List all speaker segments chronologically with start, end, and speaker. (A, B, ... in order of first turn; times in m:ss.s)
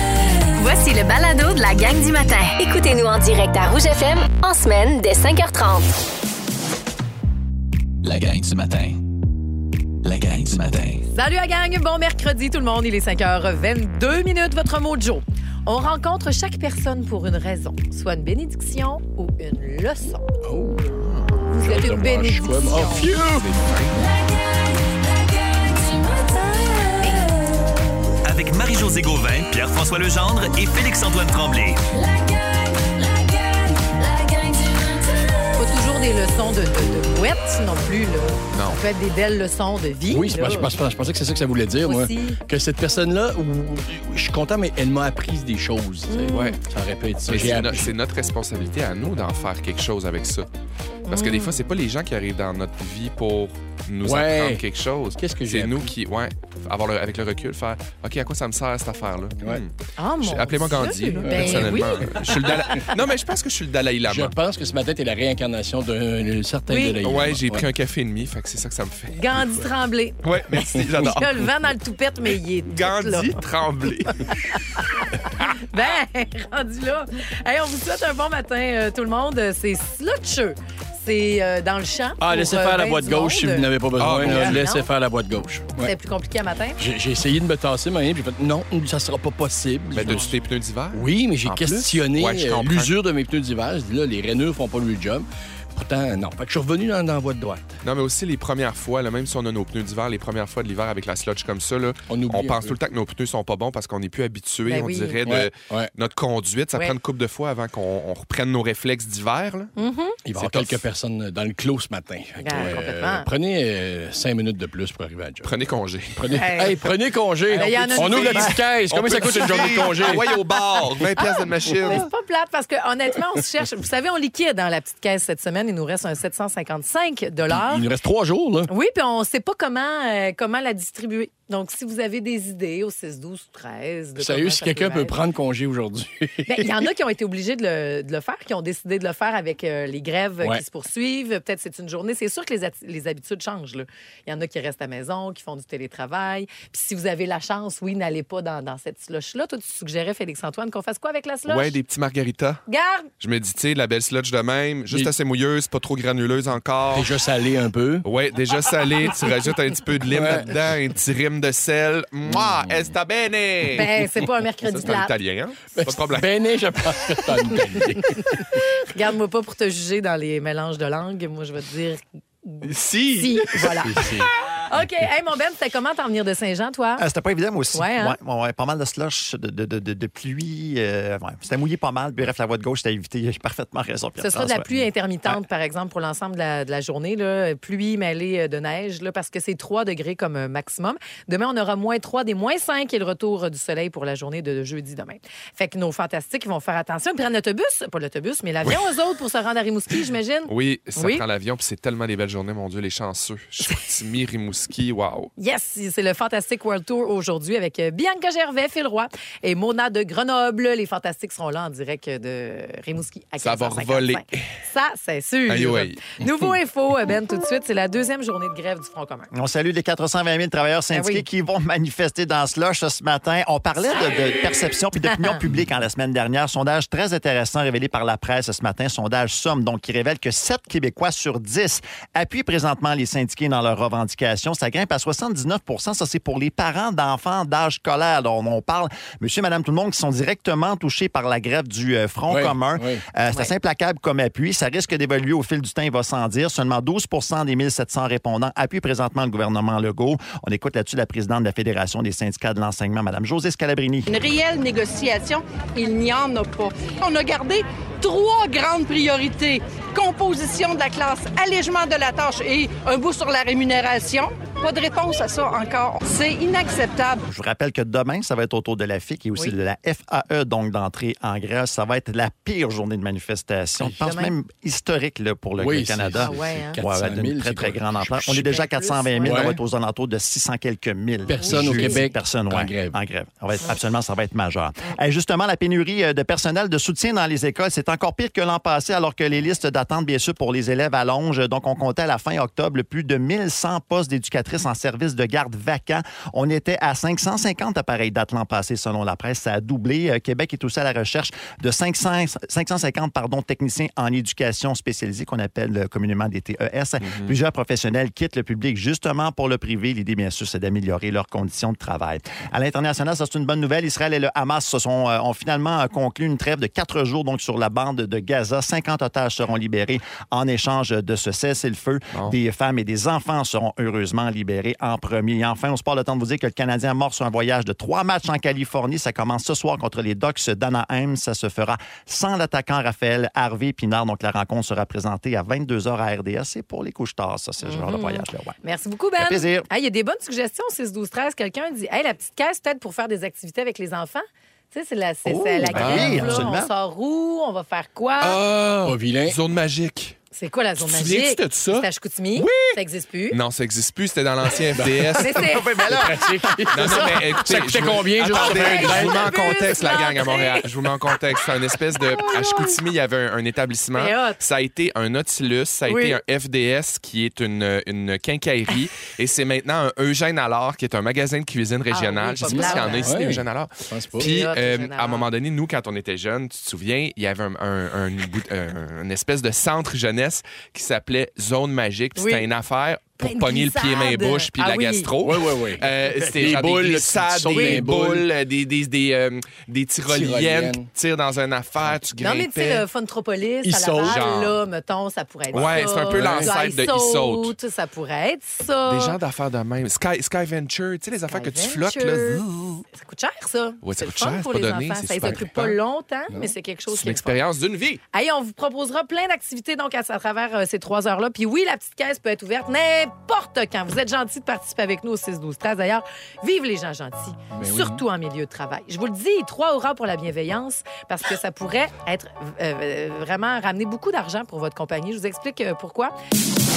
0:00.3-0:05.9 A
0:08.0-0:09.0 B
0:10.0-0:11.0 B
0:11.1-0:20.3 C
0:20.4-0:23.5 D
0:21.0-0:21.4 E
0:21.5-0:23.1 C
0:23.0-0:24.0 E
0:24.0-0:26.9 A
0:27.0-0:27.3 C
0:28.2-0:31.8 F
0:31.9-0:35.6 A
0:35.6-0:40.7 C
0:38.5-0:38.8 E
0:40.1-0:47.9 D
0:41.8-0:42.4 C
0:46.1-0:46.6 C
0:46.3-0:46.6 E
0:47.3-0:50.5 E
0:51.1-0:51.6 C
0:51.1-1:04.3 E
0:54.0-0:54.6 D
0:55.2-0:55.9 D
1:00.0-1:02.9 C
1:01.3-1:02.3 D
1:04.0-1:07.7 D
1:06.7-1:07.0 C
1:07.0-1:09.2 E
1:09.1-1:10.2 C
1:10.2-1:11.3 E
1:11.0-1:13.4 C
1:12.7-1:14.3 E
1:14.2-1:24.9 C
1:22.2-1:25.9 D
1:24.0-1:24.6 E
1:25.8-1:26.8 C
1:26.8-1:30.3 D
1:29.9-1:32.9 E
1:30.0-1:30.3 C
1:30.9-1:37.7 D
1:37.8-1:49.7 E
1:42.1-1:42.8 D
1:44.7-1:45.2 C
1:45.3-1:45.9 D
1:49.8-1:50.2 C
1:50.3-1:55.5 D
1:50.4-1:50.8 E
1:52.4-1:53.3 C
1:55.4-1:56.5 E
1:56.2-2:00.4 D
1:56.4-1:56.9 C
1:57.5-1:58.6 C
1:57.6-2:02.1 E
1:59.5-1:59.8 C
2:01.8-2:07.8 C
2:07.5-2:08.7 D
2:08.7-2:15.2 C
2:14.2-2:16.8 D
2:16.5-2:31.8 C
2:31.5-2:32.6 E
2:32.7-2:33.1 C
2:33.2-2:37.1 E
2:36.9-2:38.1 D
2:38.0-2:43.9 E
2:40.1-2:40.5 D
2:42.3-2:42.9 D
2:43.7-2:45.1 C
2:44.7-2:46.3 E
2:45.8-2:48.6 D
2:48.2-2:57.0 C
2:52.6-2:54.0 E
2:53.8-2:54.3 D
2:57.0-3:04.7 G
2:57.7-2:58.2 C
3:04.2-3:21.2 C
3:20.5-3:25.3 E
3:25.4-3:39.3 C
3:33.4-3:34.5 E
3:35.5-3:36.0 E
3:39.3-4:14.1 G
3:40.9-3:41.2 C
4:02.3-4:03.0 D
4:14.1-4:27.2 H
4:27.3-5:38.6 G
4:33.8-4:34.3 C
4:35.6-4:38.6 D
4:36.2-4:36.8 C
4:38.4-4:39.5 C
4:39.2-4:39.6 D
4:41.3-4:43.0 D
4:41.3-4:42.0 C
5:07.0-5:07.4 E
5:37.7-5:48.4 C
5:39.2-5:39.7 G
5:45.3-5:46.7 G
5:45.7-5:46.4 E
5:48.2-5:50.2 E
5:48.8-5:49.4 D
5:50.3-5:53.4 C
5:50.8-5:52.8 E
5:53.3-5:55.5 E
5:54.8-5:55.2 D
5:55.2-5:55.9 C
5:55.3-5:56.4 G
5:55.9-5:59.4 D
5:56.7-6:32.9 E
5:58.3-6:00.7 C
6:02.0-6:02.8 C
6:04.0-6:04.4 C
6:05.9-6:06.2 C
6:11.9-6:13.2 C
6:12.5-6:14.3 D
6:14.2-6:15.3 C
6:22.2-6:22.5 C
6:23.2-6:25.1 C
6:25.2-6:28.3 D
6:27.5-6:27.8 C
6:30.1-6:30.9 D
6:32.2-6:39.2 C
6:33.6-6:34.2 D
6:34.0-6:34.6 E
6:35.5-6:36.5 D
6:35.5-6:37.5 E
6:38.9-6:42.8 E
6:41.3-6:47.4 C
6:43.8-6:45.8 E
6:45.2-6:45.5 D
6:46.9-6:48.0 E
6:48.1-7:06.1 C
6:57.6-6:58.0 D